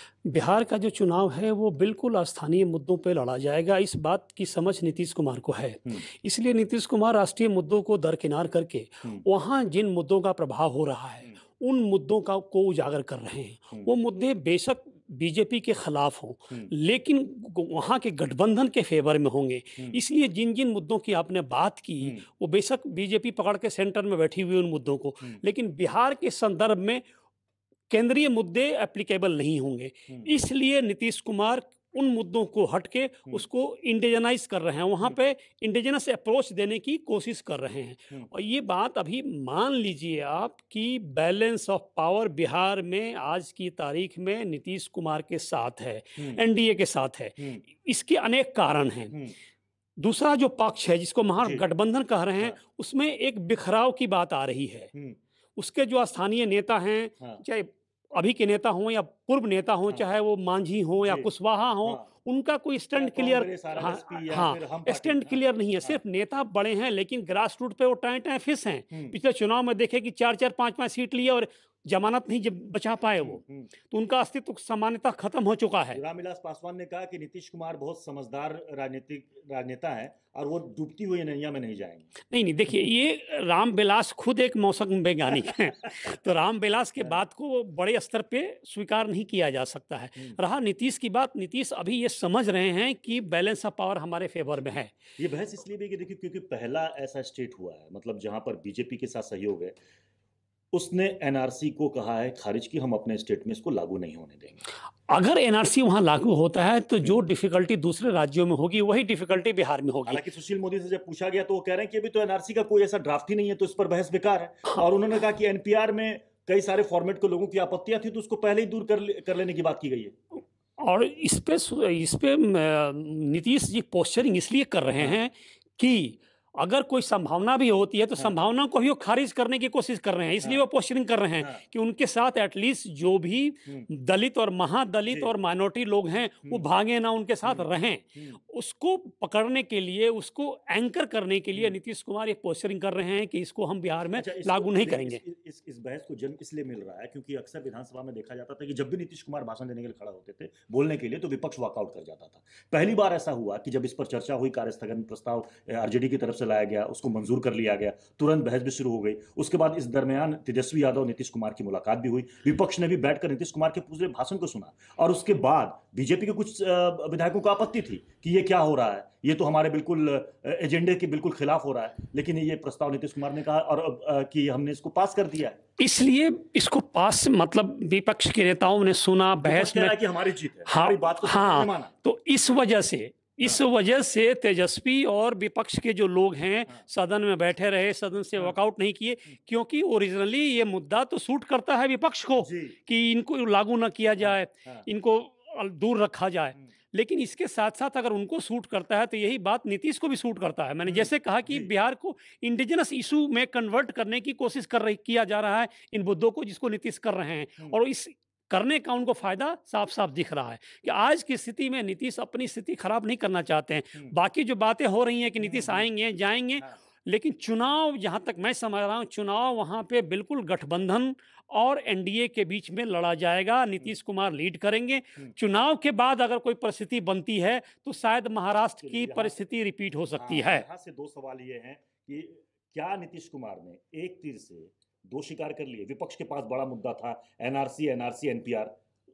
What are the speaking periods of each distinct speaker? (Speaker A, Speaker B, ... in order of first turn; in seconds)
Speaker A: 0.2-27.0, 27.9-49.2, 50.0-54.9, 55.6-76.0, 82.3-94.9, 105.1-110.2, 120.8-145.2, 175.8-180.0, 180.7-230.6
Speaker B: 61.0-61.3, 61.8-62.1, 63.0-66.0, 73.2-73.7, 75.9-82.1, 95.2-99.8, 100.7-104.6, 110.0-120.1, 135.1-135.3, 137.4-138.4, 144.1-175.6, 179.4-181.9, 192.4-192.8, 194.2-194.8, 200.8-201.7, 215.4-215.8, 228.8-229.4, 230.2-238.7